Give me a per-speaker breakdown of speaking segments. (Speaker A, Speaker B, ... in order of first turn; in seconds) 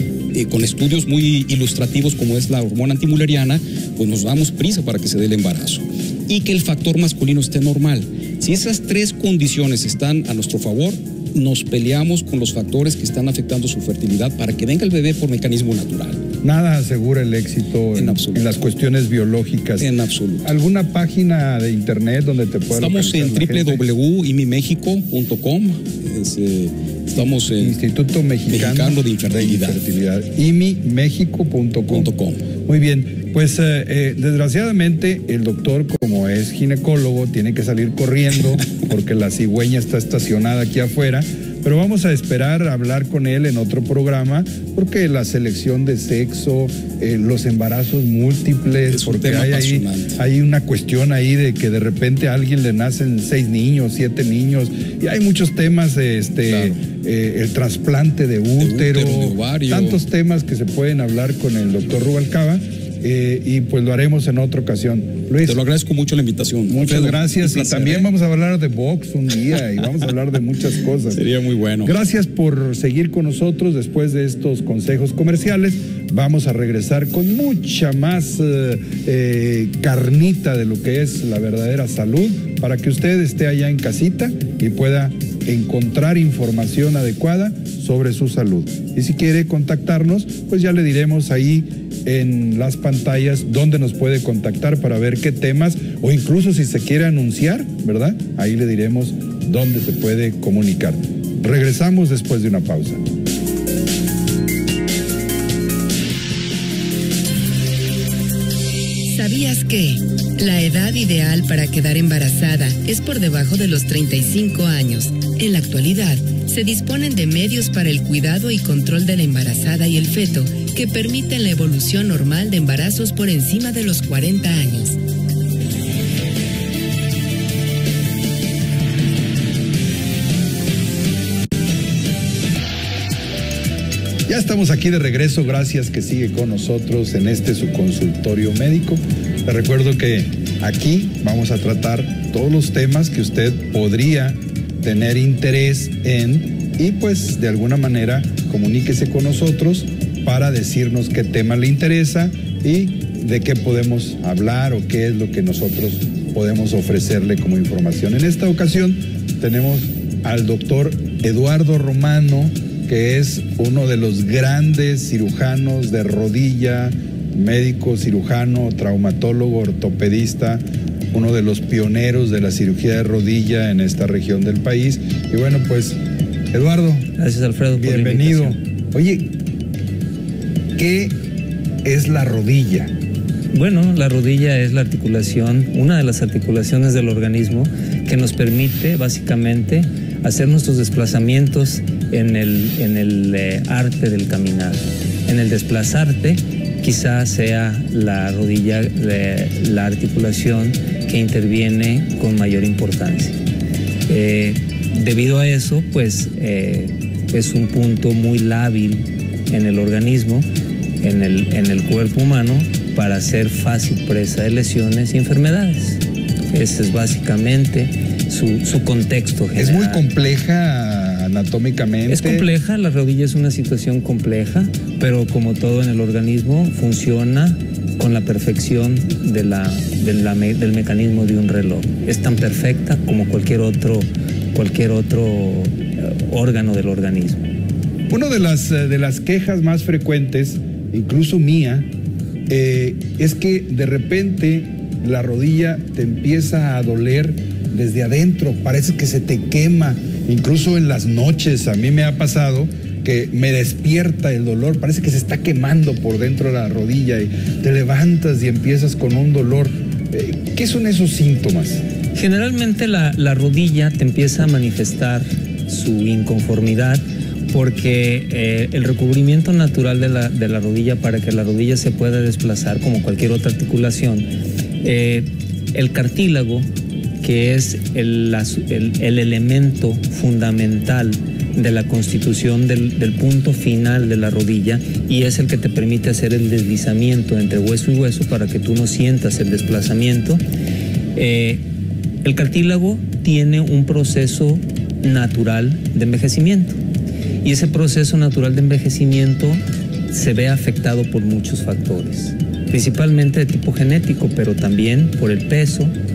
Speaker A: 0.3-16.2, 18.0-18.5, 19.8-20.5, 22.8-27.7, 28.5-29.8, 31.9-32.4, 48.9-50.1, 58.6-60.0, 65.5-68.0, 71.2-71.9
Speaker B: 16.4-23.9, 27.2-32.1, 32.6-65.6, 66.7-71.2, 71.8-103.0, 134.3-176.0, 176.5-177.1, 177.8-179.3, 180.8-181.2, 181.8-182.9, 219.6-222.5, 238.1-241.9, 242.5-261.8
Speaker C: 109.1-125.0
Speaker D: 177.2-178.6, 183.5-203.4, 204.1-210.5, 211.0-216.0, 216.5-220.0, 222.1-237.4, 262.1-274.3, 274.8-276.7, 277.2-290.4, 291.1-291.6, 292.2-296.8, 297.4-305.9